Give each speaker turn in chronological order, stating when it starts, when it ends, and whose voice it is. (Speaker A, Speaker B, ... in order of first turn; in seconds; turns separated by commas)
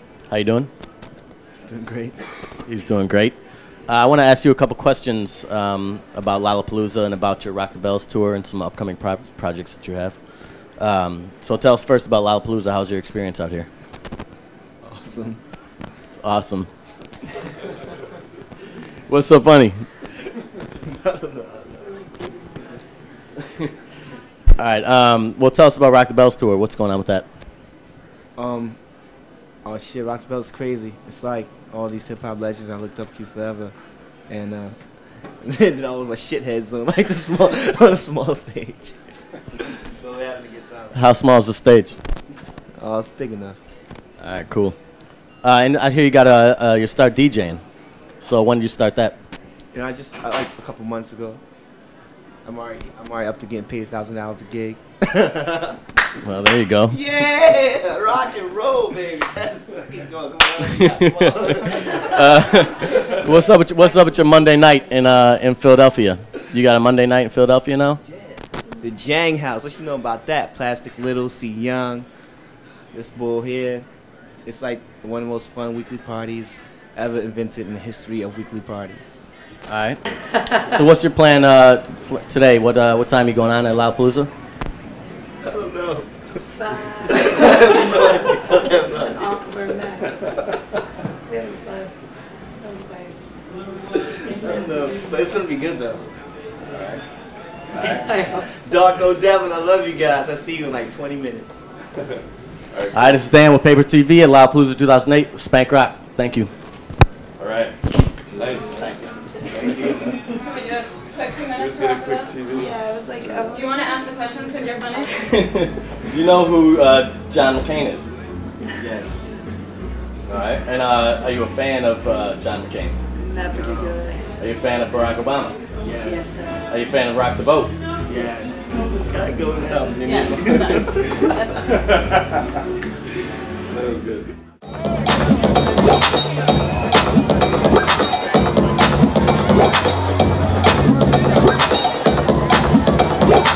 Speaker A: 0.3-0.7, Speaker B: 1.6-2.5, Speaker A: 2.6-3.4, Speaker A: 3.9-10.2, Speaker A: 10.8-13.7, Speaker B: 14.8-15.4, Speaker A: 16.2-16.7, Speaker A: 19.1-19.9, Speaker B: 20.9-22.0, Speaker C: 22.0-22.4, Speaker A: 24.6-27.2, Speaker B: 28.4-28.8, Speaker B: 29.6-33.7, Speaker B: 34.3-34.8, Speaker B: 35.4-39.0, Speaker B: 39.7-41.0, Speaker A: 40.9-42.0, Speaker B: 42.8-43.6, Speaker A: 44.2-44.8, Speaker A: 45.4-47.6, Speaker A: 48.2-49.2, Speaker B: 49.7-51.4, Speaker B: 52.4-55.8, Speaker A: 56.2-57.0, Speaker B: 56.9-62.4, Speaker A: 60.6-68.0, Speaker B: 68.0-72.1, Speaker B: 72.9-73.8, Speaker B: 74.4-79.2, Speaker A: 79.7-80.0, Speaker A: 80.6-84.3, Speaker B: 85.4-86.1, Speaker C: 86.6-87.9, Speaker B: 87.0-89.4, Speaker C: 88.5-90.2, Speaker C: 91.3-91.9, Speaker C: 92.6-93.2, Speaker B: 94.3-96.0, Speaker A: 97.7-98.1, Speaker C: 97.7-98.4, Speaker B: 98.6-101.6, Speaker A: 102.9-106.5, Speaker D: 107.4-107.7, Speaker D: 108.4-108.8, Speaker A: 108.8-109.1, Speaker B: 109.5-110.2, Speaker E: 110.4-112.3, Speaker D: 111.6-112.7, Speaker C: 112.5-114.0, Speaker E: 113.5-115.1, Speaker A: 115.2-118.1, Speaker B: 118.8-119.2, Speaker A: 120.3-123.0, Speaker C: 123.3-124.2, Speaker B: 123.5-124.0, Speaker A: 124.4-125.5, Speaker B: 125.8-126.3, Speaker C: 126.0-126.6, Speaker A: 126.7-127.7, Speaker B: 128.1-131.5, Speaker C: 128.1-128.5, Speaker A: 129.7-130.4, Speaker E: 130.0-131.7, Speaker D: 133.8-134.2